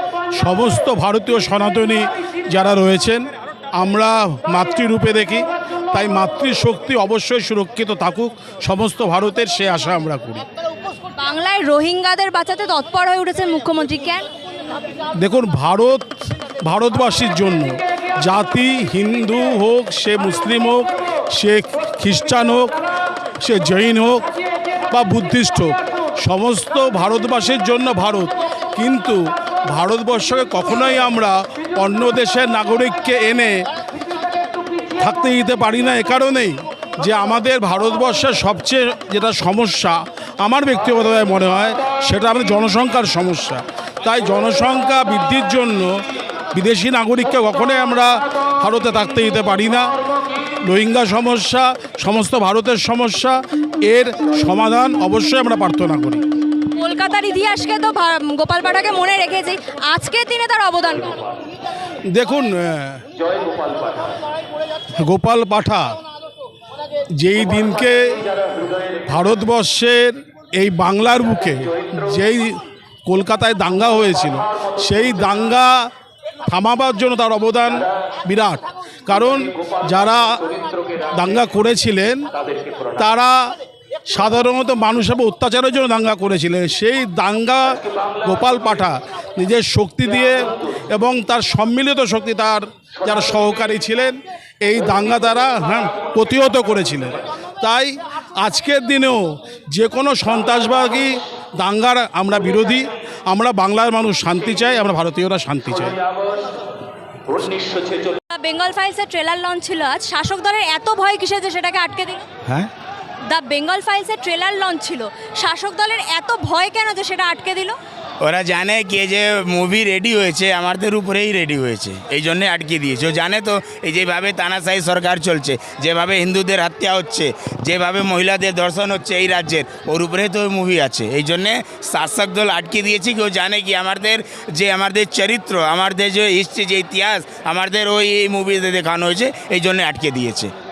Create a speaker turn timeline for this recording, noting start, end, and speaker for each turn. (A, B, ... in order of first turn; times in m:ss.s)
0:00.4-0:10.4 A
0:11.2-0:14.3 B
0:15.2-0:16.1 A
0:16.6-0:22.7 A
0:23.4-0:24.2 A
0:24.9-0:29.2 A
0:29.7-0:33.5 A
0:35.0-0:45.9 A
0:46.5-0:49.9 A
0:50.6-0:53.4 A
0:53.9-0:56.2 A
0:56.7-1:01.2 B
1:02.1-1:03.0 A
1:05.0-1:05.8 A
1:07.2-1:08.2 A
1:09.1-1:15.7 A
1:16.5-1:20.2 A
1:21.1-1:22.3 A
1:23.0-1:23.3 A
1:24.1-1:30.4 A
1:30.9-1:46.0 A
1:48.3-1:52.2 B
1:53.3-1:57.8 B
1:58.2-2:20.5 C